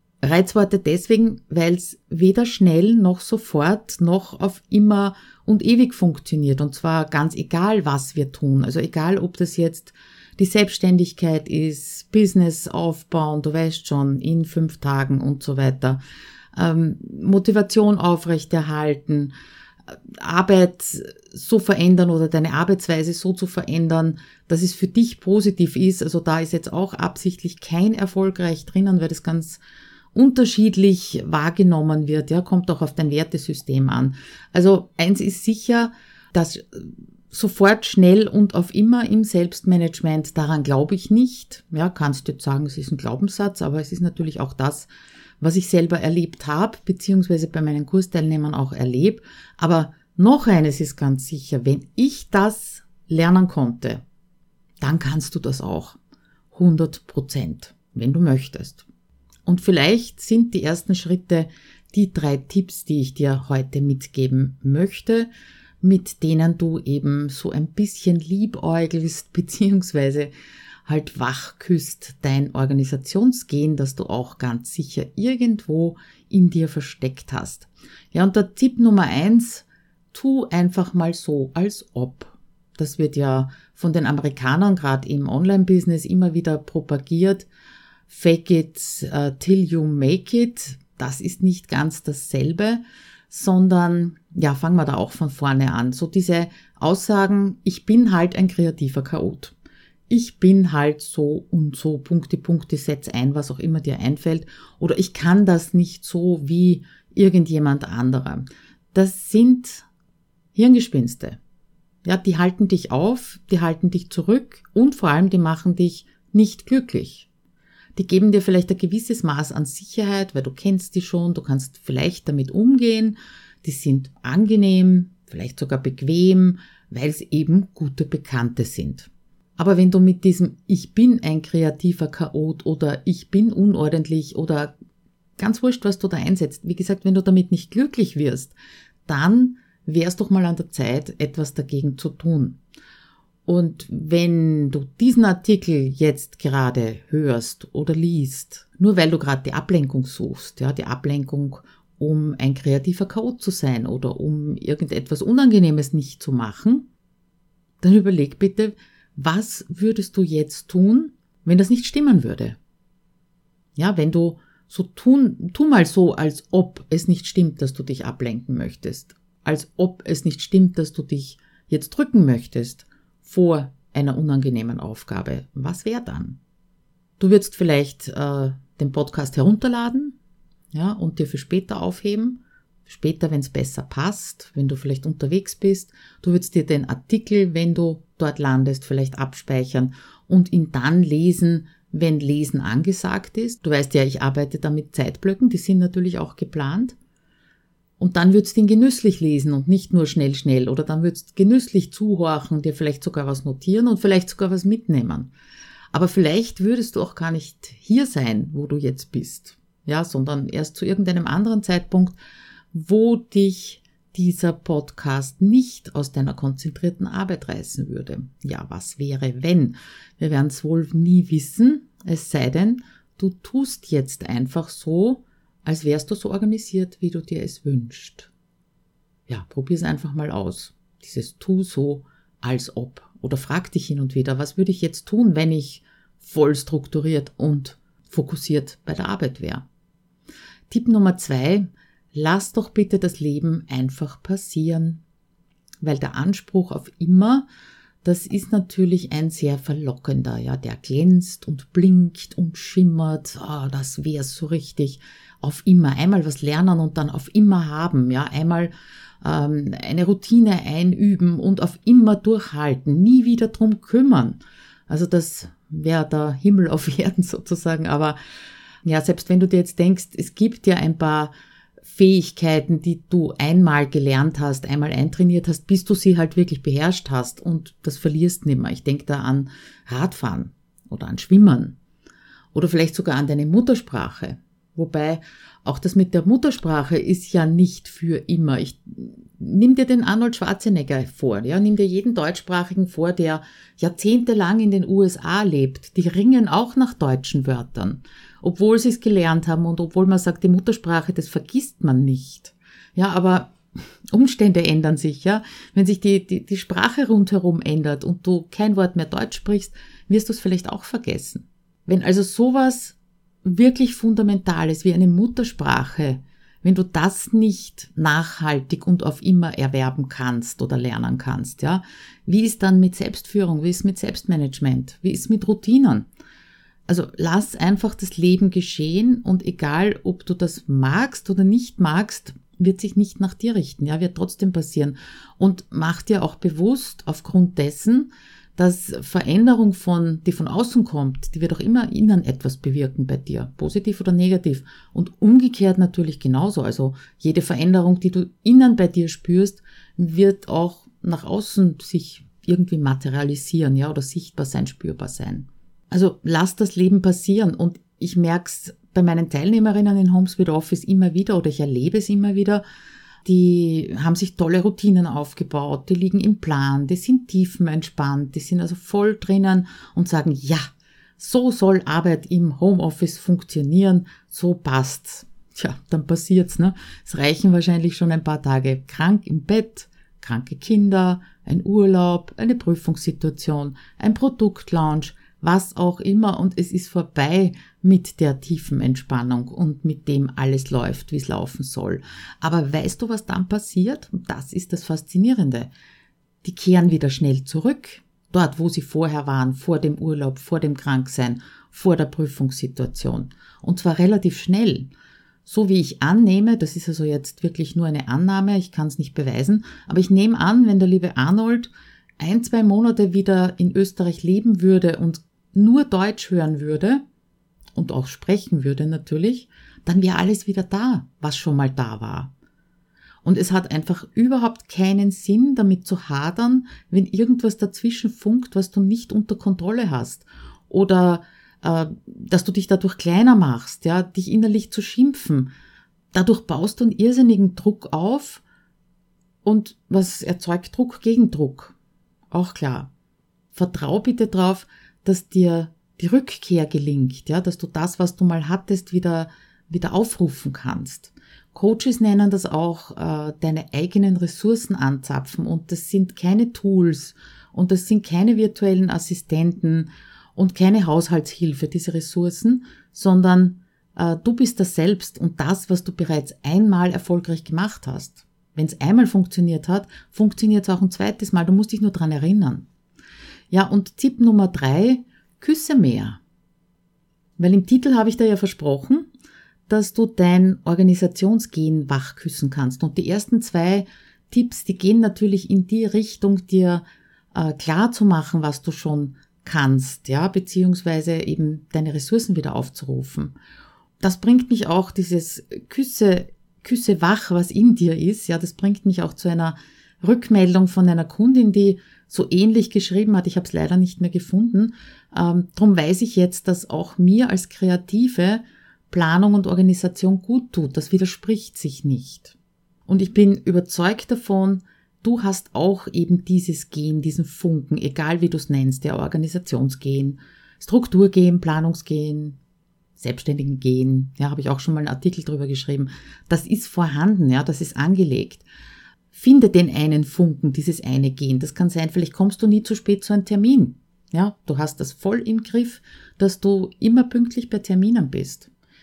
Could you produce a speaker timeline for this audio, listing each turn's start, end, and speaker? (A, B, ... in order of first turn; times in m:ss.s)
0:00.2-0:16.0 A
0:16.6-0:19.3 A
0:20.1-0:29.6 A
0:30.1-0:44.9 A
0:45.4-0:54.0 A
0:54.8-0:56.0 A
0:56.5-0:58.8 A
0:59.4-1:05.3 A
1:05.8-1:10.3 A
1:10.9-1:27.5 A
1:28.1-1:39.6 A
1:40.1-1:49.9 A
1:50.6-1:51.4 A
1:52.0-1:57.3 A
1:58.0-2:14.7 A
2:15.4-2:18.6 A
2:19.1-2:22.6 A
2:23.5-2:36.9 A
2:37.8-2:42.6 A
2:43.8-2:56.4 A
2:57.2-3:00.2 A
3:00.7-3:17.0 A
3:18.0-3:25.3 A
3:25.9-3:32.2 A
3:32.7-3:48.3 A
3:49.3-3:59.6 A
4:00.7-4:05.0 A
4:05.8-4:07.5 A
4:08.0-4:28.2 A
4:28.8-4:31.3 A
4:31.8-4:41.8 A
4:42.5-5:03.5 A
5:04.1-5:26.1 A
5:26.9-6:02.6 A
6:03.2-6:10.7 A
6:11.2-6:35.7 A
6:36.4-6:44.9 A
6:45.4-6:57.0 A
6:57.8-7:02.3 A
7:03.2-7:15.5 A
7:16.1-7:18.4 A
7:19.4-7:21.8 A
7:22.3-7:22.9 A
7:23.5-7:52.7 A
7:53.5-7:56.2 A
7:57.4-7:59.1 A
7:59.7-8:13.4 A
8:14.0-8:32.4 A
8:32.9-8:42.4 A
8:43.0-8:48.4 A
8:49.1-8:58.5 A